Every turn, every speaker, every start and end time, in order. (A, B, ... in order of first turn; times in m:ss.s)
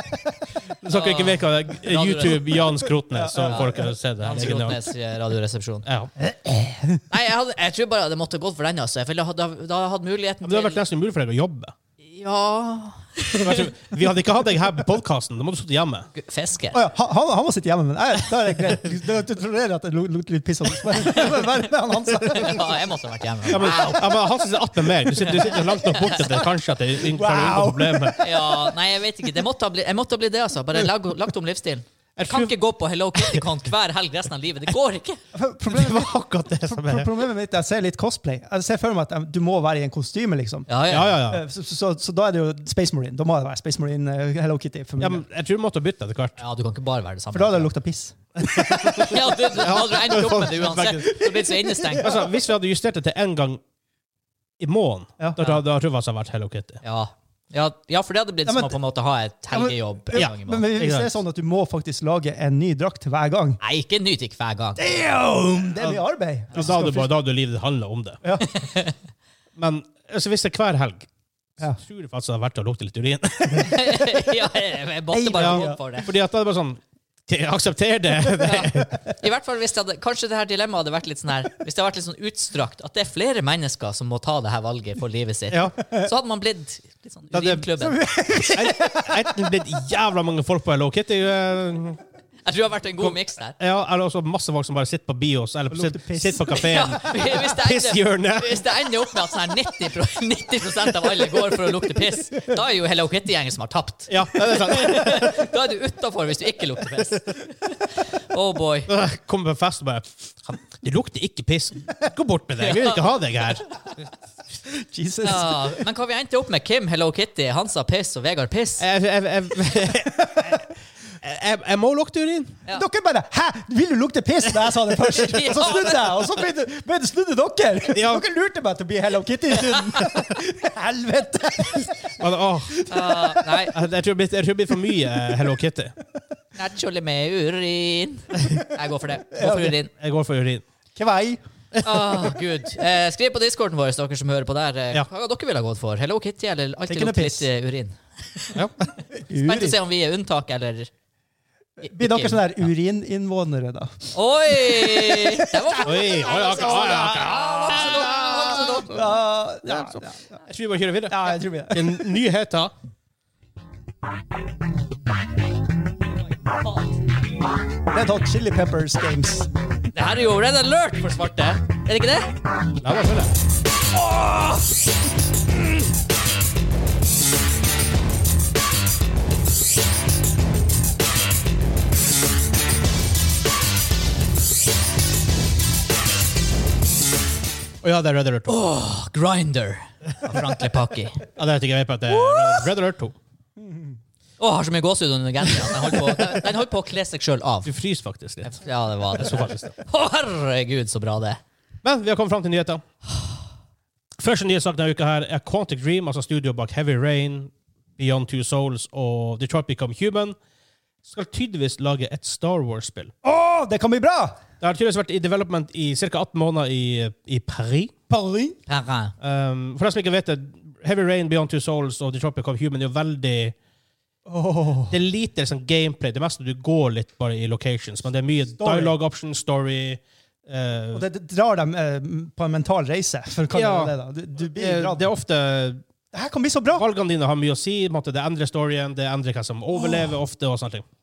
0:00.8-0:04.8 A
0:00.9-0:02.7 B
0:03.1-0:03.9 C
0:03.3-0:05.9 B
0:05.9-0:06.1 A
0:06.2-0:07.0 C
0:07.1-0:10.8 B
0:10.4-0:11.7 A
0:12.0-0:13.7 B
0:13.4-0:16.1 A
0:16.1-0:16.8 B
0:16.7-0:22.8 C
0:21.0-0:21.5 B
0:22.3-0:24.1 B
0:23.5-0:28.2 A
0:25.2-0:26.4 B
0:27.0-0:28.5 C
0:28.2-0:35.2 B
0:32.2-0:32.5 A
0:33.2-0:33.4 A
0:35.3-0:40.7 C
0:35.7-0:37.1 A
0:40.7-0:41.2 B
0:40.9-0:41.4 A
0:41.2-0:45.2 C
0:45.0-0:46.4 A
0:46.4-0:47.7 B
0:47.3-0:49.2 C
0:48.4-0:51.1 A
0:49.0-0:52.1 B
0:51.1-0:52.3 C
0:52.0-0:53.6 A
0:54.6-0:56.8 A
0:56.8-1:00.7 B
0:58.5-0:58.8 C
0:59.5-1:03.6 C
1:00.1-1:01.1 A
1:03.6-1:05.0 B
1:04.8-1:07.1 C
1:06.5-1:08.2 A
1:08.2-1:08.5 C
1:08.4-1:09.0 B
1:09.6-1:11.1 A
1:11.6-1:14.0 A
1:13.6-1:16.1 B
1:15.1-1:15.8 C
1:15.4-1:19.0 A
1:18.4-1:28.0 B
1:25.5-1:25.8 A
1:27.3-1:27.7 A
1:27.8-1:29.5 C
1:28.4-1:32.0 A
1:32.4-1:33.6 B
1:33.0-1:38.7 A
1:35.7-1:36.6 C
1:36.5-1:47.5 B
1:44.1-1:45.5 A
1:48.3-1:48.9 B
1:48.9-1:53.7 A
1:52.6-1:53.0 B
1:54.7-1:55.8 C
1:55.2-1:58.8 B
1:58.8-2:02.6 A
2:02.7-2:12.2 C
2:05.1-2:06.2 B
2:07.9-2:08.2 A
2:12.2-2:12.9 A
2:12.7-2:13.5 C
2:12.9-2:13.8 B
2:13.7-2:15.9 A
2:16.6-2:19.9 B
2:19.3-2:19.8 C
2:20.0-2:20.6 A
2:21.0-2:21.4 C
2:21.8-2:22.1 A
2:21.8-2:28.6 B
2:26.9-2:27.5 C
2:29.1-2:29.8 C
2:29.3-2:30.9 B
2:31.8-2:40.4 C
2:31.8-2:32.5 B
2:34.1-2:39.0 B
2:35.8-2:39.0 A
2:39.6-2:42.7 A
2:41.1-2:42.1 C
2:47.9-2:49.5 C
2:49.9-2:52.3 B
2:52.8-2:53.3 A
2:54.0-2:54.6 B
3:07.8-3:08.5 A
3:08.5-3:11.2 B
3:11.4-3:13.2 A
3:12.1-3:12.7 B
3:13.6-3:14.0 C
3:14.4-3:17.7 B
3:17.6-3:18.6 A
3:18.4-3:21.4 B
3:19.1-3:19.7 A
3:21.8-3:22.8 A
3:24.2-3:30.4 A
3:31.0-3:33.1 A
3:33.2-3:34.4 C
3:34.6-3:37.9 A
3:38.1-3:38.6 C
3:38.7-3:39.1 B
3:39.2-3:43.5 A
3:44.3-3:45.0 C
3:44.9-3:51.0 A
3:48.6-3:49.0 C
3:50.9-3:55.1 C
3:53.5-3:53.9 A
3:54.5-3:55.8 A
3:56.1-3:56.9 C
3:56.7-4:00.8 A
3:59.8-4:00.1 C